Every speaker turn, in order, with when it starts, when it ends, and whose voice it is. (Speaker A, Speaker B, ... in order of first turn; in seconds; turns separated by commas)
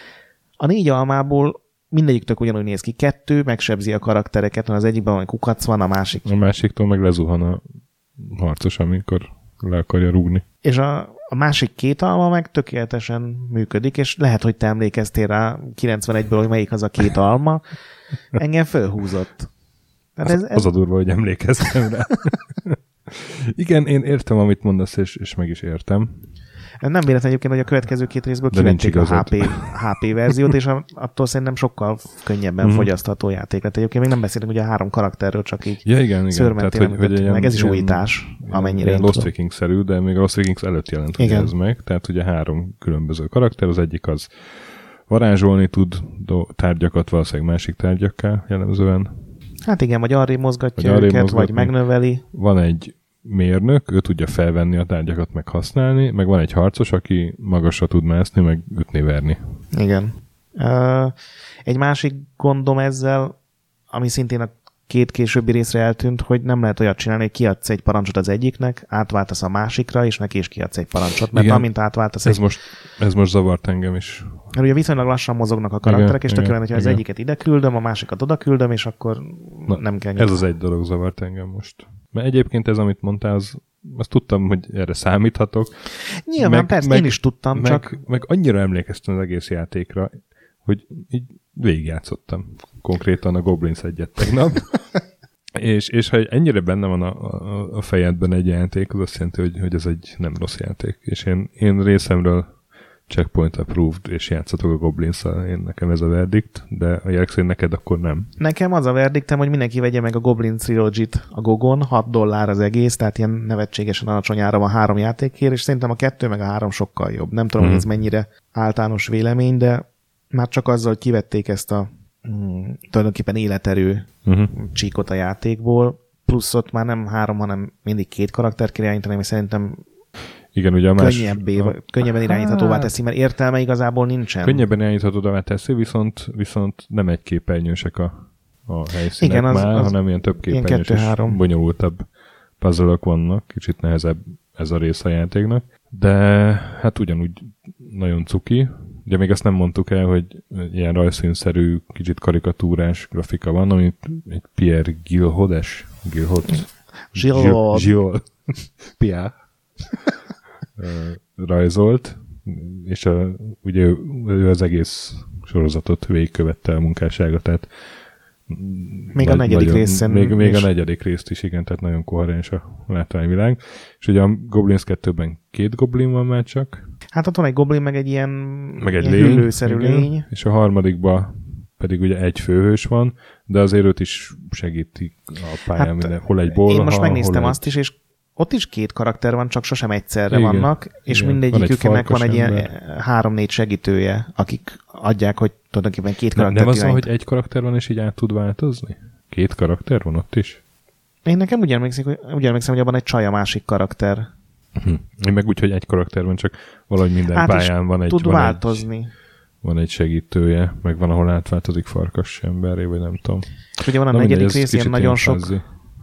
Speaker A: 0.6-6.3, Speaker B: 6.2-7.6, Speaker B: 8.2-10.4, Speaker A: 10.6-17.6, Speaker A: 18.3-19.5, Speaker A: 20.1-20.7, Speaker B: 20.2-26.3, Speaker A: 26.8-39.3, Speaker B: 28.5-29.8, Speaker B: 32.6-32.9, Speaker B: 35.8-49.1, Speaker A: 41.2-41.5, Speaker A: 49.6-52.2, Speaker B: 50.8-59.4, Speaker A: 59.7-63.3, Speaker A: 63.9-72.4, Speaker B: 71.3-74.5, Speaker A: 74.5-80.4, Speaker B: 75.8-77.0, Speaker B: 79.7-94.8, Speaker A: 86.2-87.9, Speaker B: 95.5-102.5, Speaker B: 103.1-108.3, Speaker A: 108.4-129.8, Speaker B: 117.6-117.9, Speaker B: 124.2-124.5, Speaker B: 130.5-132.9, Speaker A: 131.0-134.6, Speaker B: 134.4-142.0, Speaker A: 139.2-141.4, Speaker B: 142.6-159.4, Speaker A: 157.1-157.9, Speaker B: 160.8-167.8, Speaker B: 168.5-176.8, Speaker A: 169.1-170.7, Speaker A: 177.1-180.3, Speaker B: 178.8-187.6, Speaker A: 185.7-197.1, Speaker B: 190.3-192.7, Speaker B: 196.3-200.6, Speaker A: 201.2-204.3, Speaker B: 204.8-208.9, Speaker A: 207.3-209.1, Speaker B: 209.6-215.6, Speaker A: 213.8-215.6